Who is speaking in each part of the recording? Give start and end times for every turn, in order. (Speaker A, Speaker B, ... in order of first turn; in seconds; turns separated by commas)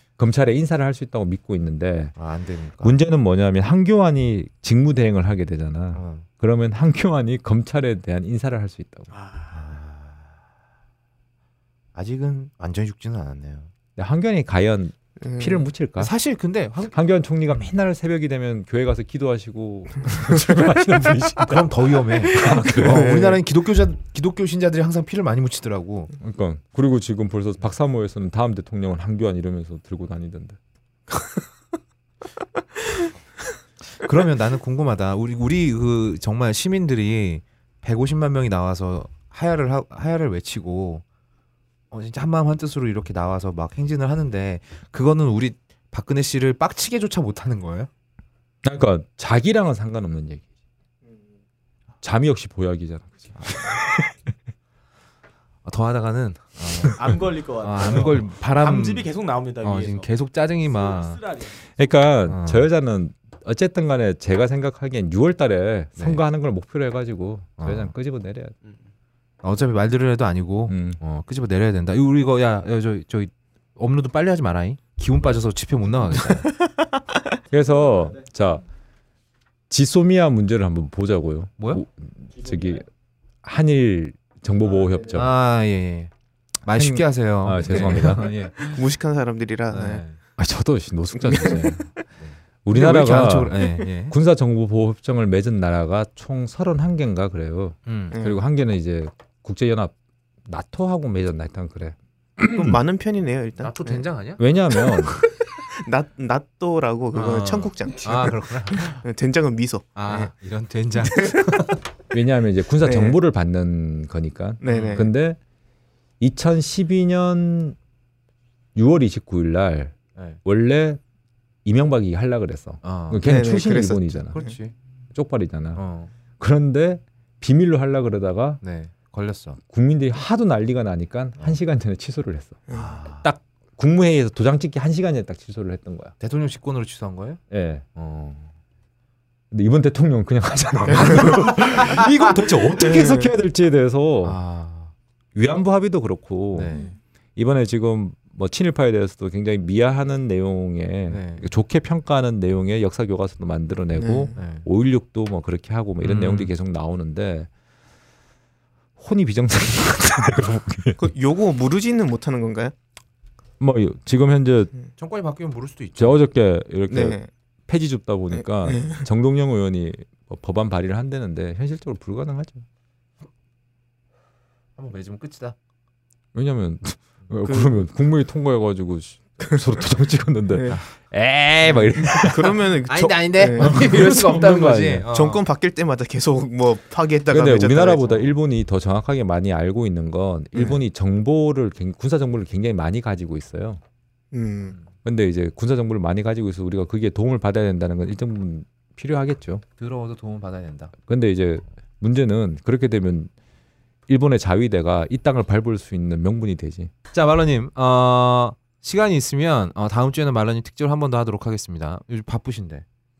Speaker A: 0.2-2.1, Speaker B: 2.1-3.0, Speaker A: 2.8-9.1, Speaker B: 5.9-6.2, Speaker C: 9.1-9.5, Speaker B: 9.5-10.3, Speaker B: 11.9-13.7, Speaker A: 13.9-16.1, Speaker D: 15.2-15.6, Speaker B: 16.0-16.9, Speaker A: 16.9-23.2, Speaker B: 21.4-26.1, Speaker D: 22.7-23.4, Speaker A: 26.2-30.6, Speaker B: 33.9-41.0, Speaker B: 41.9-47.9, Speaker A: 48.6-50.4, Speaker A: 52.0-54.3, Speaker B: 55.6-57.0, Speaker C: 57.0-61.7, Speaker B: 57.6-59.1, Speaker B: 59.6-61.2, Speaker A: 61.8-68.5, Speaker B: 62.3-62.7, Speaker B: 66.0-66.2, Speaker B: 67.6-67.9, Speaker B: 69.4-76.5, Speaker A: 70.7-71.0, Speaker A: 77.5-78.6, Speaker A: 79.7-82.9, Speaker A: 83.4-85.4, Speaker B: 85.1-86.1, Speaker B: 86.6-88.7, Speaker A: 86.7-88.3, Speaker D: 88.6-90.0, Speaker B: 89.7-90.2, Speaker A: 90.4-91.9, Speaker D: 91.2-91.7, Speaker B: 92.2-94.2, Speaker A: 92.6-99.9, Speaker B: 97.9-98.2, Speaker D: 98.1-98.4, Speaker A: 100.5-102.8, Speaker D: 102.5-104.0, Speaker B: 103.6-104.4, Speaker A: 104.4-105.2, Speaker D: 105.8-110.3, Speaker B: 107.1-109.0, Speaker B: 109.9-111.8, Speaker D: 111.0-111.4, Speaker A: 112.1-115.4, Speaker D: 112.8-113.2, Speaker D: 114.6-115.1, Speaker B: 114.7-115.0, Speaker A: 116.2-117.8, Speaker A: 118.7-121.0, Speaker A: 121.6-124.4, Speaker B: 122.8-123.2, Speaker D: 123.2-124.6, Speaker B: 124.3-124.7, Speaker A: 125.1-125.8, Speaker B: 125.7-126.1, Speaker A: 126.4-128.6, Speaker B: 128.6-129.6, Speaker A: 129.7-132.6, Speaker B: 132.7-133.3, Speaker A: 133.2-136.1, Speaker B: 136.2-137.4, Speaker A: 137.5-138.4, Speaker A: 139.5-144.4, Speaker B: 141.0-141.9, Speaker D: 142.8-143.3, Speaker B: 144.2-144.9, Speaker A: 145.3-146.7, Speaker B: 146.5-146.9, Speaker A: 147.4-157.5, Speaker B: 151.1-151.5, Speaker D: 153.9-154.3, Speaker B: 154.4-154.7, Speaker B: 156.0-156.5, Speaker A: 159.0-161.1, Speaker D: 161.0-162.7, Speaker A: 163.6-164.7, Speaker B: 165.0-166.2, Speaker A: 166.0-172.6, Speaker D: 166.9-167.3, Speaker D: 168.3-169.0, Speaker B: 174.8-175.6, Speaker A: 176.3-182.7, Speaker D: 177.4-177.8, Speaker D: 180.5-180.8, Speaker D: 181.8-183.9, Speaker B: 182.9-185.4, Speaker A: 183.6-185.1, Speaker D: 185.1-188.3, Speaker A: 187.3-193.8, Speaker D: 194.3-194.8, Speaker A: 195.0-199.6, Speaker B: 199.8-200.9, Speaker A: 201.1-203.3, Speaker A: 204.1-206.9, Speaker B: 207.1-212.8